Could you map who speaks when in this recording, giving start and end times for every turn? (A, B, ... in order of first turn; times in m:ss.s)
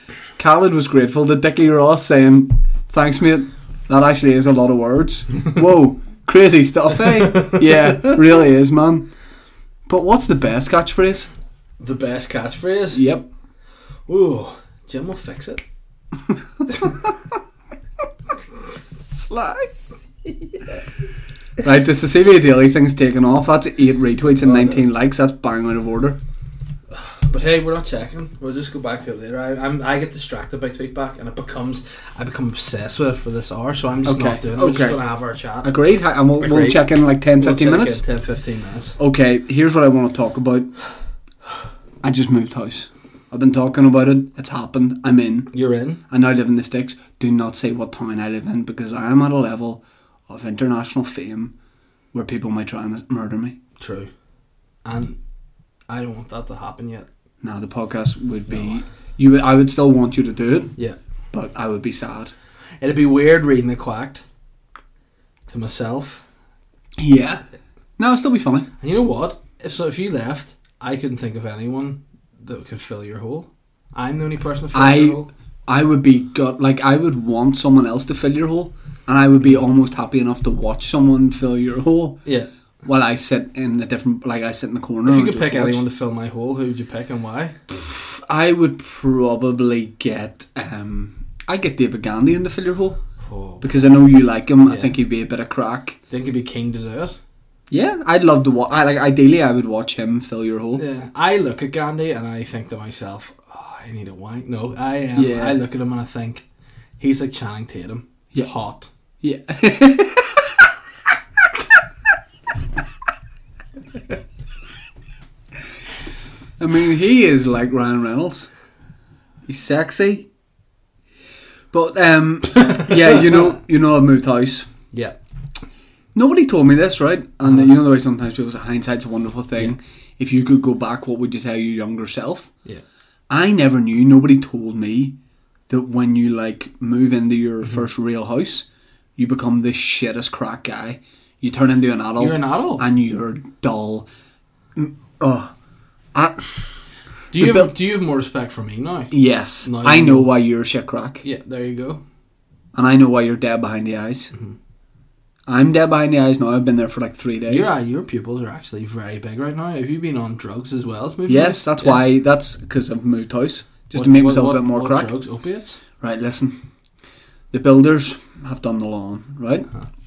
0:00.4-0:09.1 A
0:07.3-0:07.6 B
0:09.9-0:11.3 A
0:11.8-0:13.1 B
0:12.9-0:13.3 A
0:14.1-0:15.6 B
0:19.1-0:19.7 A
0:21.6-0:26.2 A
0:24.4-0:24.8 B
0:26.9-0:35.8 B
0:34.0-0:35.0 A
0:35.6-0:38.0 A
0:36.4-0:39.0 B
0:39.0-0:40.7 A
0:42.0-0:45.5 A
0:45.5-0:46.0 B
0:46.1-0:51.5 A
0:52.1-0:53.6 A
0:53.8-0:54.1 B
0:54.8-0:55.2 B
0:55.9-0:57.1 B
0:57.4-1:00.7 A
0:58.5-0:58.8 B
1:01.3-1:02.3 A
1:02.8-1:04.2 B
1:05.5-1:06.2 B
1:07.0-1:07.4 A
1:08.0-1:08.7 A
1:08.8-1:15.3 B
1:14.7-1:22.2 A
1:22.8-1:25.8 A
1:25.1-1:27.6 B
1:27.7-1:33.0 A
1:33.2-1:33.7 B
1:33.6-1:36.0 A
1:34.6-1:34.9 B
1:36.1-1:37.2 B
1:37.7-1:40.8 A
1:40.8-1:46.4 B
1:45.2-1:45.6 A
1:47.0-1:48.9 B
1:49.2-1:50.6 A
1:56.6-1:58.5 A
1:59.5-2:00.3 A
2:01.7-2:04.7 A
2:02.6-2:02.9 B
2:06.2-2:12.5 A
2:07.4-2:07.8 B
2:13.3-2:15.2 A
2:15.7-2:18.7 A
2:19.2-2:24.1 A
2:22.2-2:22.9 B
2:24.8-2:25.5 A
2:26.1-2:26.8 A
2:27.3-2:30.3 B
2:27.4-2:27.7 A
2:29.1-2:31.2 A
2:31.2-2:32.0 B
2:32.7-2:34.3 A
2:35.5-2:37.7 A
2:37.5-2:42.0 B
2:41.3-2:45.1 A
2:43.9-2:45.8 B
2:46.0-2:46.6 A
2:47.5-2:49.7 A